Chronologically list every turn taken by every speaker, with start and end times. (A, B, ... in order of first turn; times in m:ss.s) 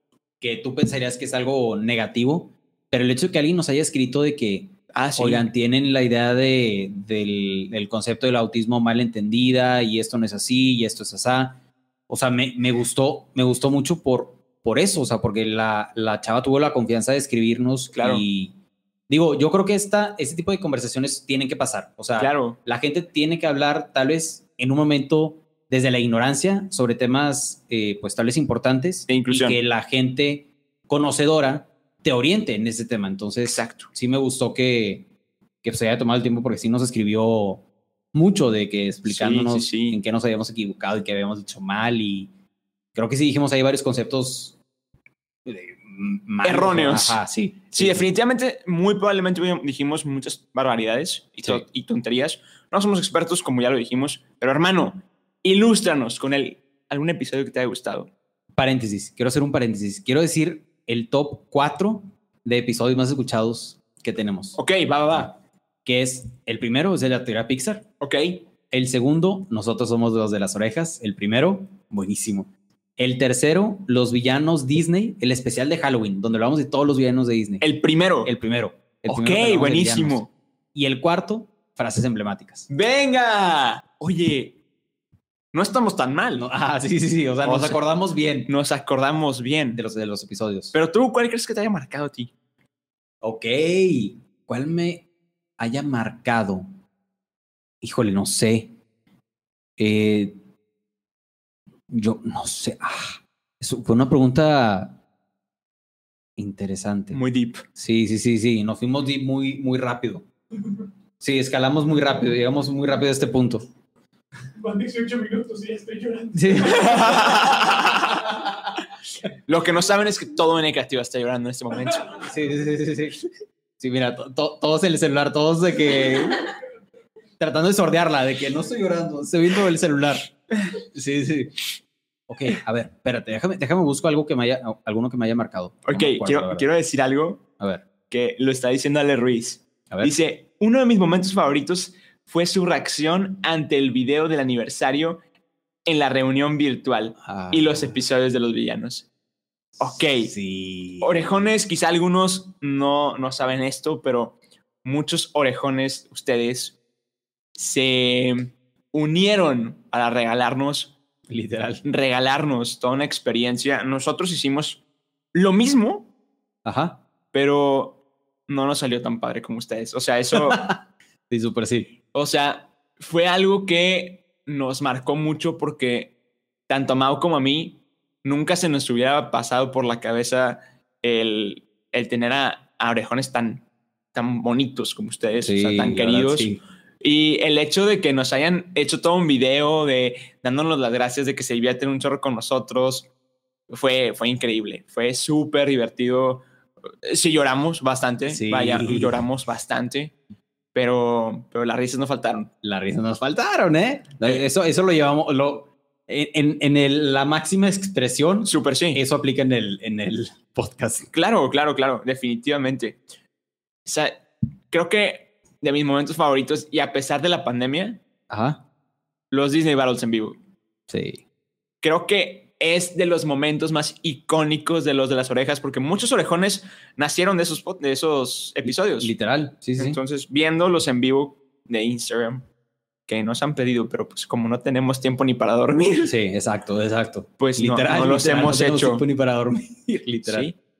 0:00.4-0:18.5 A
0:04.9-0:05.5 B
0:17.9-0:18.2 B
0:19.1-0:35.1 A
0:22.2-0:22.6 B
0:29.1-0:29.6 B
0:33.4-0:33.9 B
0:35.6-0:42.3 A
0:39.0-0:40.0 B
0:42.9-0:44.6 A
0:45.4-0:48.0 A
0:46.4-0:47.2 B
0:47.7-0:58.1 B
0:58.5-1:04.6 A
1:04.6-1:05.3 B
1:05.1-1:07.8 A
1:08.0-1:08.5 B
1:08.7-1:17.6 A
1:17.6-1:18.3 B
1:18.2-1:22.7 A
1:19.1-1:20.3 B
1:22.7-1:24.6 B
1:25.5-1:26.4 B
1:26.3-1:28.5 A
1:27.4-1:27.8 B
1:28.4-1:29.8 B
1:29.8-1:30.7 A
1:30.7-1:32.3 B
1:33.2-1:35.0 A
1:35.6-1:36.7 A
1:37.8-1:38.7 A
1:39.8-1:40.4 A
1:41.9-1:45.0 A
1:46.4-1:47.2 A
1:47.1-1:47.6 B
1:47.7-1:50.3 A
1:51.2-1:53.7 A
1:54.6-1:57.1 C
1:56.3-1:57.6 A
1:56.6-1:58.2 B
1:59.4-2:02.2 B
2:02.2-2:03.2 A
2:03.8-2:06.5 A
2:07.4-2:11.6 A
2:12.3-2:16.7 A
2:15.8-2:17.4 B
2:17.6-2:17.8 A
2:18.1-2:25.2 B
2:25.8-2:29.1 B
2:27.2-2:28.0 A
2:29.8-2:30.3 B
2:29.8-2:31.5 A
2:31.0-2:36.8 B
2:37.6-2:41.0 B
2:41.3-2:41.8 A
2:41.8-2:44.8 B
2:45.3-2:46.1 B
2:46.6-2:47.0 A
2:47.3-2:50.7 B
2:50.3-2:51.9 A
2:52.1-2:56.1 B
2:56.7-3:13.1 B
3:05.4-3:06.6 A
3:13.7-3:16.4 B
3:17.0-3:20.2 B
3:18.3-3:19.2 A
3:20.7-3:22.5 B
3:22.6-3:31.1 A
3:28.4-3:29.0 B
3:31.1-3:33.0 B
3:33.8-3:38.0 B
3:38.3-3:38.6 A
3:39.3-3:40.4 B
3:40.9-3:41.2 A
3:41.8-3:49.1 B
3:48.6-3:50.0 A
3:49.8-3:52.4 B
3:53.1-3:56.1 B
3:56.0-4:00.5 A
3:57.4-3:59.0 B
4:00.2-4:00.6 B